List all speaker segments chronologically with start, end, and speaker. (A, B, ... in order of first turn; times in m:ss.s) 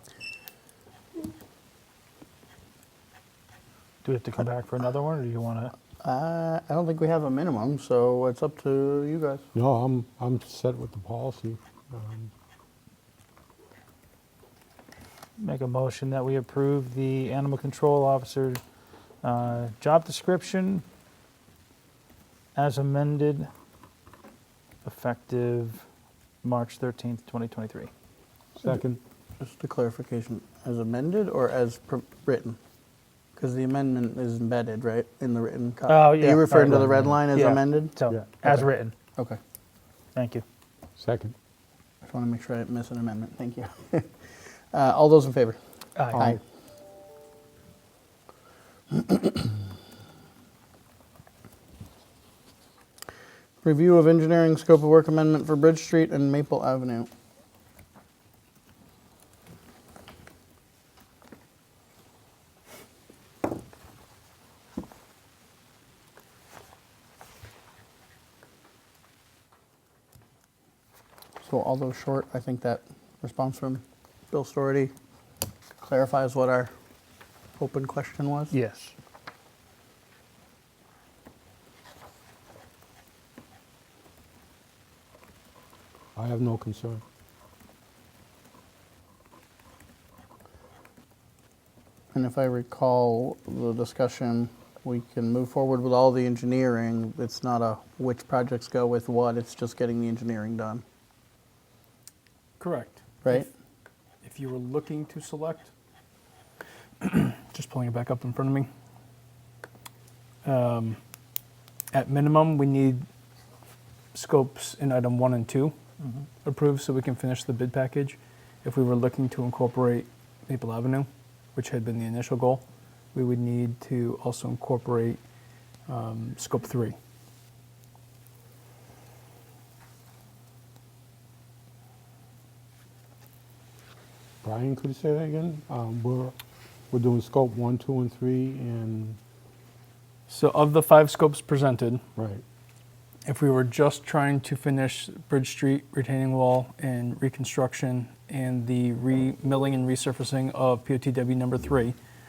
0:04.0-0:05.7 A
0:06.0-0:09.4 B
0:09.5-0:12.3 C
0:15.4-0:18.6 A
0:19.2-0:20.8 A
0:22.5-0:23.5 A
0:24.8-0:25.8 A
0:26.4-0:27.9 A
0:28.6-0:29.0 C
0:29.4-0:32.6 B
0:33.4-0:37.9 B
0:35.9-0:38.9 A
0:36.7-0:37.2 C
0:40.1-0:40.4 A
0:41.0-0:41.3 C
0:42.0-0:44.1 B
0:44.7-0:45.6 B
0:46.0-0:46.4 A
0:46.1-0:46.4 B
0:48.9-0:49.5 B
0:53.6-0:57.1 B
1:11.4-1:14.9 B
1:15.8-1:16.7 B
1:17.6-1:18.5 B
1:18.5-1:18.9 A
1:26.1-1:27.0 C
1:32.1-1:40.8 B
1:42.6-1:43.4 D
1:44.2-1:45.7 D
1:47.0-1:48.7 D
1:50.4-1:51.0 D
1:51.9-1:53.0 D
1:54.1-1:55.7 D
1:56.4-2:05.2 D
2:05.9-2:07.0 D
2:14.4-2:16.3 C
2:16.9-2:19.2 C
2:20.3-2:22.0 D
2:22.2-2:22.4 C
2:23.2-2:31.9 D